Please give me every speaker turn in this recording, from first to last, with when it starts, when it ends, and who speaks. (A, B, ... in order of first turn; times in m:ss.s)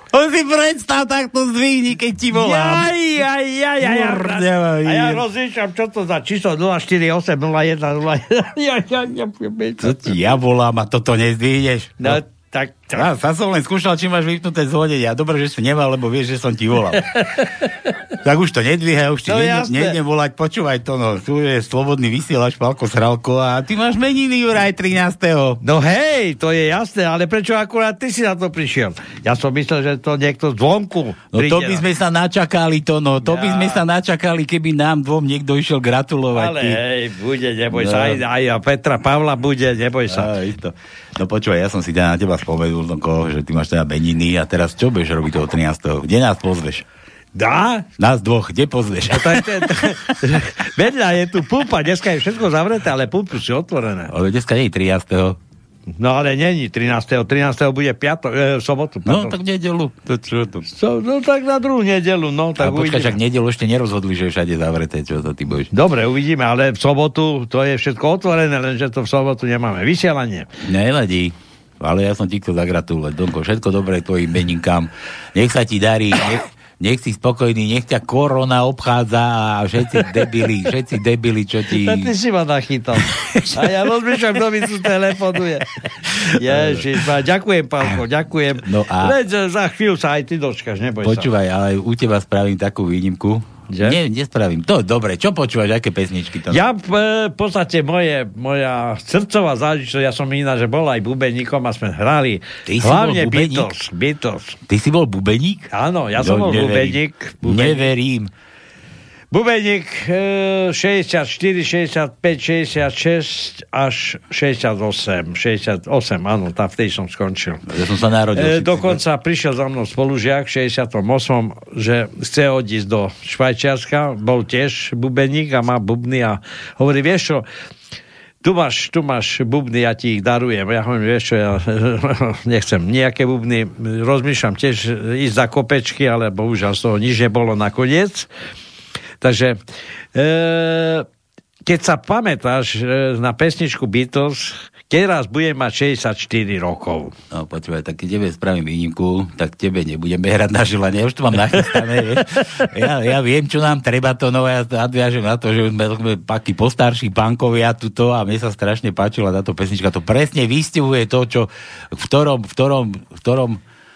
0:00.1-0:02.9 A
0:02.3-0:10.1 B
0:03.8-0:05.2 A
0:09.8-0:12.2 A
0:12.0-0:13.1 B
0:12.9-0:17.0 A
0:17.1-0:17.4 B
0:18.2-0:25.6 A
0:19.3-0:20.0 B
0:25.6-0:31.8 B
0:31.3-0:36.8 A
0:33.2-0:33.8 B
0:36.3-0:40.3 B
0:37.7-0:38.2 A
0:40.1-0:46.8 A
0:47.4-0:47.9 B
0:48.0-0:50.1 A
0:49.1-0:54.1 B
0:54.1-0:55.4 A
0:56.0-0:59.4 B
0:59.0-1:00.7 A
1:00.7-1:03.2 B
1:02.6-1:05.7 A
1:05.7-1:10.5 B
1:10.6-1:22.1 A
1:21.7-1:25.7 B
1:23.0-1:23.8 A
1:26.3-1:26.9 A
1:26.4-1:31.3 B
1:28.6-1:29.2 A
1:31.0-1:36.6 A
1:33.7-1:34.0 B
1:36.5-1:44.6 B
1:42.7-1:43.7 A
1:44.7-1:48.3 A
1:45.7-1:47.9 B
1:49.3-1:57.6 B
1:57.7-1:59.0 A
1:58.4-2:07.4 B
2:08.4-2:18.3 B
2:19.2-2:19.6 B
2:20.2-2:21.1 B
2:21.7-2:27.1 B
2:27.3-2:43.6 A